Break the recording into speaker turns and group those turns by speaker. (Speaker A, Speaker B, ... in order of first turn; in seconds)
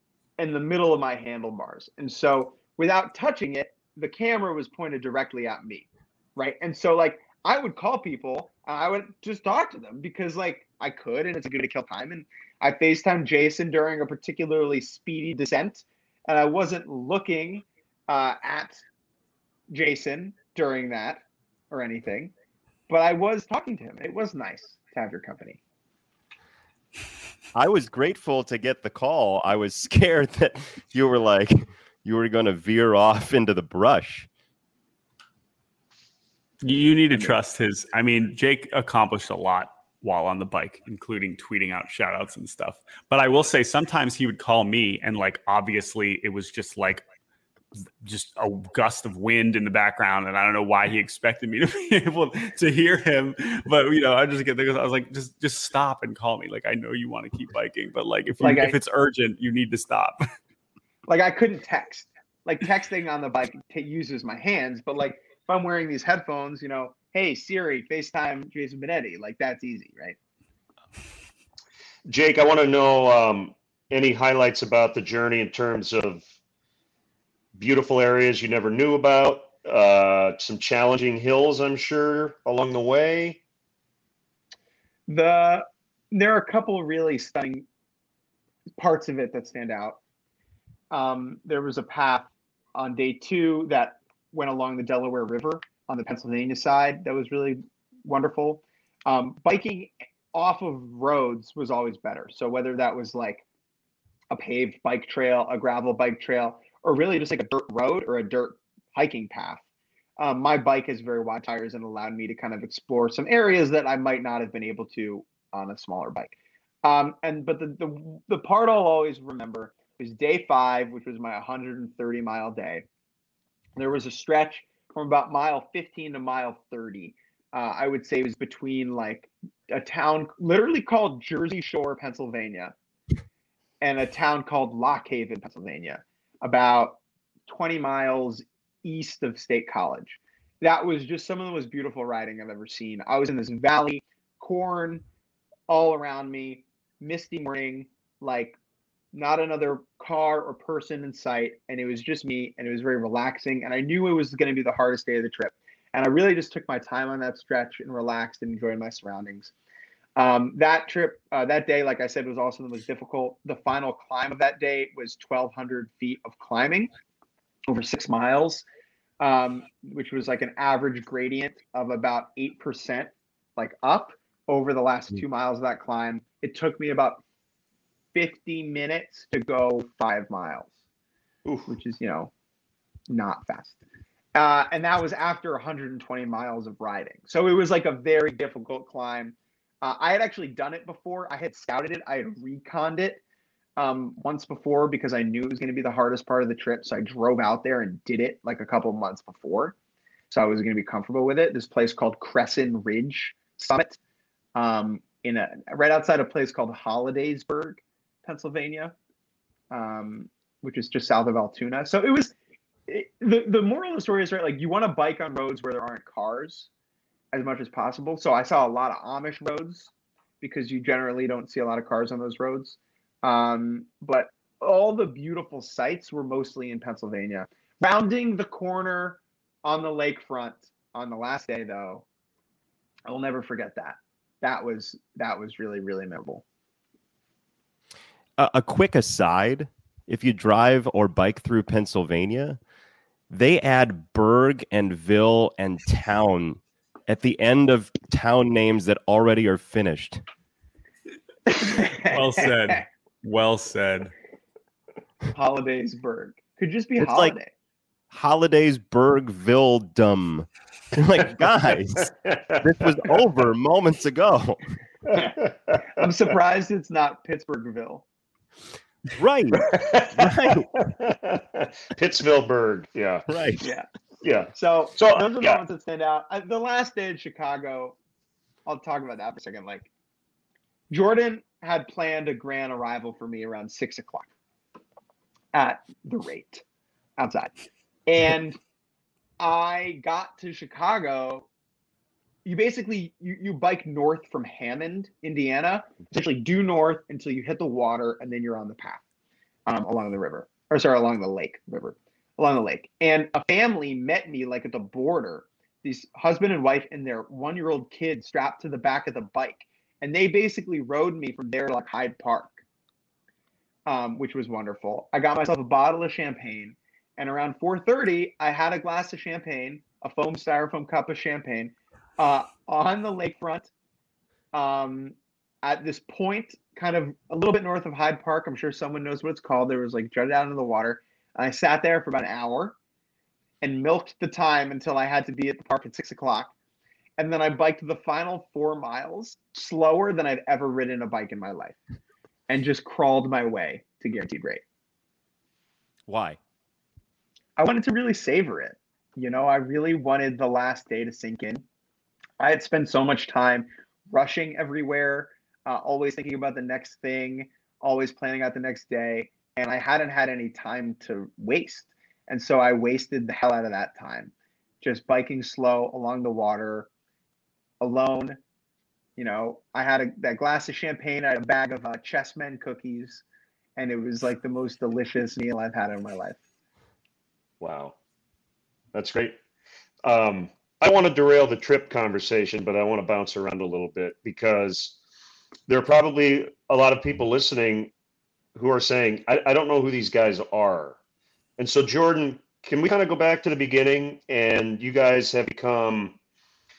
Speaker A: 0.4-18.8, 19.7-22.3, 22.9-25.6, 58.4-58.8, 61.1-70.2, 85.1-87.7, 88.8-90.0, 90.9-103.4, 104.3-109.6, 110.2-122.8, 123.8-132.7, 133.8-145.0, 145.7-148.6, 149.1-159.5, 160.2-166.9, 167.7-168.6, 169.2-177.2, 178.1-180.8, 181.7-182.3, 183.1-183.8, 184.3-193.2, 193.8-199.8, 200.3-204.0, 204.5-208.9, 209.7-212.3, 212.9-216.7, 217.3-232.0, 233.1-236.4, 251.5-252.8, 255.3-257.5, 265.9-268.0, 273.6-273.9, 274.6-277.9, 278.6-279.9, 280.9-284.3, 285.5-286.6, 287.2-287.5, 288.1-288.6, 289.4-291.5, 292.4-299.0, 299.7-312.6, 313.9-323.7, 324.5-332.8, 333.6-336.5, 337.2-341.8, 342.5-344.6, 347.6-351.6, 352.4-366.9, 367.8-368.4, 369.2-373.2, 373.8-376.4
Speaker B: 27.5-34.3, 238.4-242.6, 243.3-250.2, 257.0-257.4, 258.1-264.6, 269.1-270.7, 273.3-273.6, 346.1-346.4
Speaker C: 36.6-47.0, 48.0-60.2, 252.0-254.1
Speaker D: 72.0-76.3, 77.5-83.4, 181.4-181.7, 262.2-262.6, 265.1-265.8, 269.6-273.2, 274.2-275.6, 377.6-378.0, 378.9-379.4, 380.0-385.0, 385.7-387.9, 388.5-391.0, 391.6-396.2